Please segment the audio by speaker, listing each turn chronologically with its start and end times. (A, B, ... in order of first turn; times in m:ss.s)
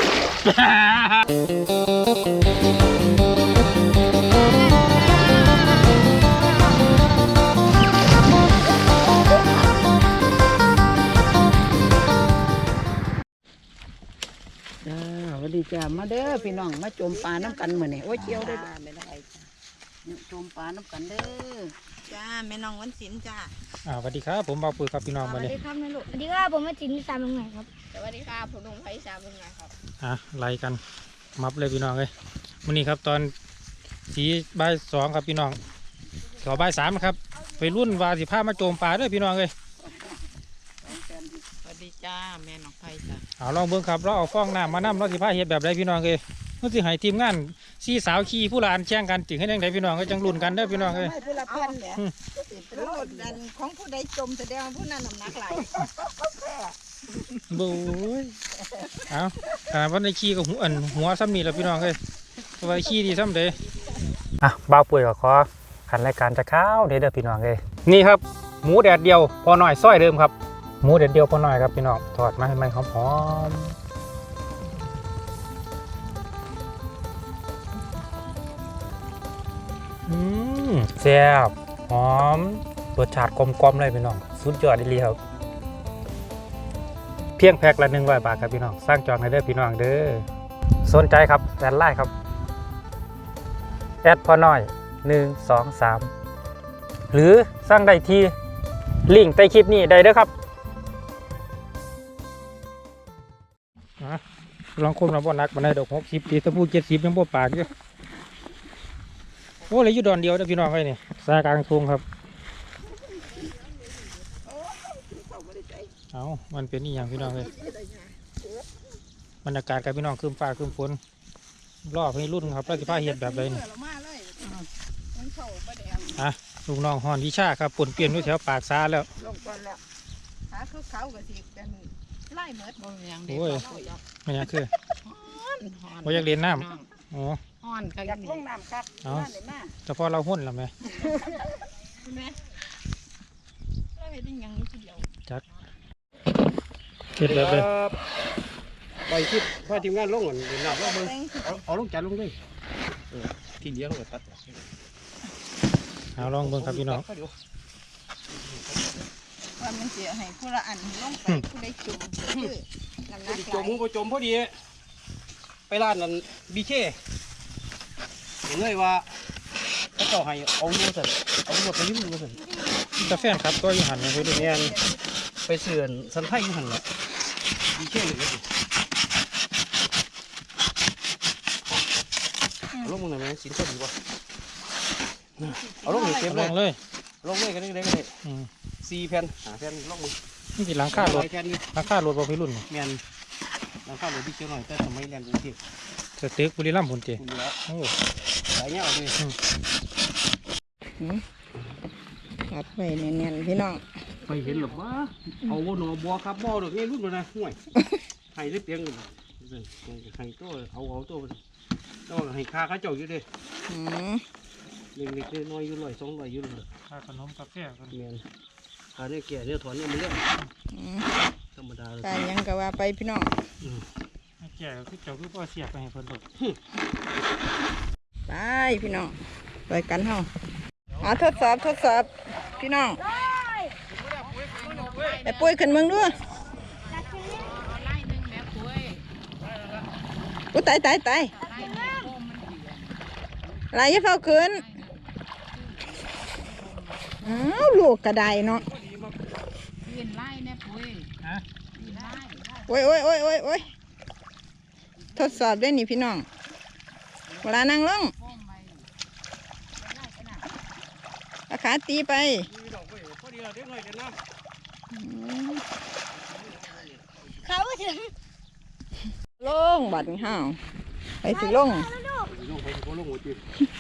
0:00.5-0:01.1 A
0:14.8-0:18.7 B
0:16.2-0:19.5 C
0:20.0-0:21.7 B
0:22.1-0:22.9 D
0:22.6-0:23.5 C
0:23.8-0:25.6 A
0:25.4-0:26.0 C
0:26.0-0:27.7 D
0:27.9-0:29.7 C
0:30.0-0:30.8 A
0:31.4-0:32.1 A
0:32.6-0:33.3 A
0:34.1-0:35.6 A
0:36.4-0:39.5 A
0:40.9-0:41.2 B
0:41.6-0:43.2 C
0:43.4-0:51.1 A
0:50.2-0:53.4 B
0:51.2-0:51.8 C
0:52.7-0:55.7 C
0:57.4-0:58.3 A
0:59.1-1:02.0 A
1:02.6-1:03.6 A
1:04.4-1:13.8 A
1:20.1-1:25.2 A
1:27.4-1:30.2 A
1:30.8-1:32.1 A
1:34.0-1:36.1 A
1:37.1-1:38.3 A
1:39.1-1:40.3 A
1:44.8-1:47.7 A
1:49.7-1:52.0 A
1:54.5-1:55.9 C
1:56.1-1:57.5 A
1:57.5-1:57.9 C
1:59.4-2:01.0 A
2:01.9-2:03.7 A
2:03.7-2:04.4 C
2:05.1-2:06.1 C
2:06.2-2:09.1 A
2:09.2-2:09.8 C
2:10.5-2:14.0 C
2:13.3-2:13.7 A
2:14.2-2:14.7 A
2:15.0-2:16.9 C
2:16.0-2:17.4 A
2:17.6-2:18.4 C
2:18.0-2:19.7 B
2:19.0-2:19.3 A
2:19.8-2:20.7 A
2:24.0-2:25.0 C
2:27.2-2:27.7 A
2:27.2-2:28.0 E
2:29.1-2:32.4 E
2:30.7-2:31.6 C
2:33.1-2:34.6 E
2:36.2-2:37.0 A
2:36.2-2:37.3 E
2:38.3-2:39.0 E
2:39.6-2:43.8 C
2:43.2-2:44.5 E
2:45.7-2:47.0 E
2:48.4-2:49.1 E
2:49.9-2:52.4 E
2:53.0-2:54.7 A
2:54.2-2:54.6 C
2:54.2-2:54.8 E
2:55.4-2:56.8 E
2:57.7-2:58.4 E
3:02.8-3:03.9 E
3:05.4-3:06.6 E
3:06.2-3:06.8 A
3:07.2-3:08.1 E
3:08.2-3:08.5 A
3:08.8-3:10.1 E
3:10.6-3:12.6 A
3:10.9-3:11.6 E
3:12.7-3:13.0 E
3:13.8-3:15.6 E
3:16.2-3:17.9 A
3:17.2-3:17.6 E
3:18.5-3:19.2 E
3:22.5-3:23.8 C
3:24.2-3:27.6 E
3:28.3-3:31.4 E
3:32.1-3:33.2 E
3:33.7-3:34.2 C
3:34.9-3:36.7 E
3:36.9-3:38.0 A
3:37.9-3:38.2 E
3:38.9-3:40.2 E
3:40.7-3:41.2 C
3:41.5-3:42.3 E
3:42.0-3:43.3 C
3:44.4-3:46.2 A
3:48.3-3:49.1 C
3:49.7-3:50.3 C
3:51.0-3:53.0 C
3:53.0-3:53.8 D
3:54.0-3:55.3 E
3:54.7-3:56.2 C
3:56.9-3:57.7 D
3:57.3-3:59.0 C
4:00.5-4:02.9 C
4:01.4-4:02.0 D
4:03.7-4:04.9 C
4:07.2-4:08.7 C
4:08.3-4:09.2 E
4:09.8-4:11.1 C
4:11.8-4:13.6 C
4:15.1-4:16.3 C
4:17.4-4:18.2 C
4:19.8-4:20.4 C
4:21.5-4:22.5 C
4:22.5-4:24.2 E
4:24.9-4:25.6 C
4:26.1-4:27.0 E
4:27.4-4:28.1 D
4:29.4-4:30.6 C
4:31.2-4:31.9 C
4:31.2-4:32.3 D
4:32.3-4:33.4 E